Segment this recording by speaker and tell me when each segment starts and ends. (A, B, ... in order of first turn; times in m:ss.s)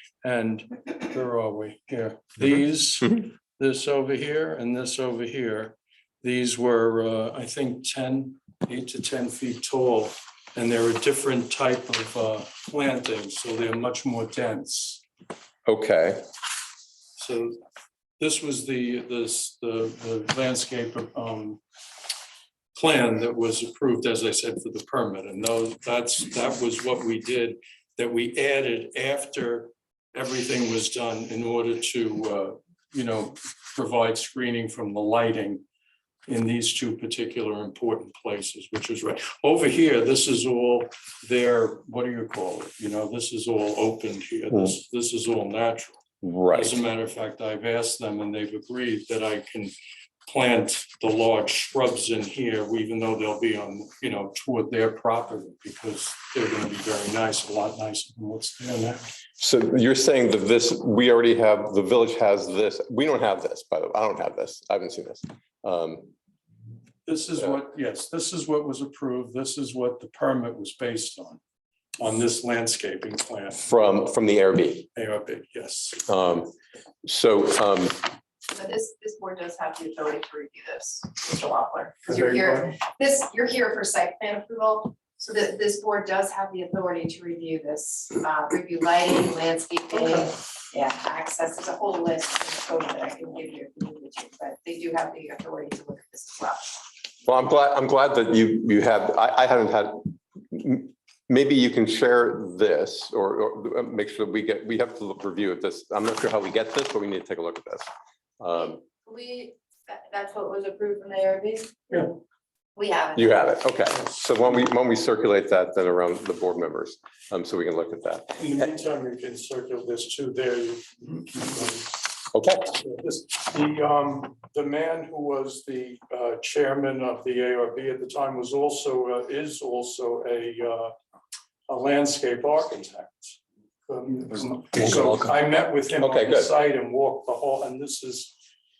0:00.2-0:15.0 A
0:15.6-0:16.3 B
0:17.2-0:17.6 A
0:18.2-0:21.6 A
0:22.7-0:35.6 A
0:36.3-0:49.7 A
0:46.2-0:46.8 B
0:50.2-0:59.1 A
0:59.4-1:06.1 B
1:07.0-1:11.4 A
1:12.0-1:13.7 A
1:13.6-1:14.9 B
1:14.9-1:16.0 A
1:16.1-1:16.5 B
1:17.0-1:18.0 B
1:18.5-1:36.9 C
1:22.0-1:22.7 A
1:37.2-1:47.9 B
1:48.4-1:48.8 B
1:49.0-1:52.1 C
1:52.8-1:53.3 C
1:53.1-1:58.6 B
1:58.4-2:02.0 A
2:02.3-2:02.7 B
2:02.7-2:10.9 A
2:11.7-2:18.3 A
2:16.0-2:16.5 B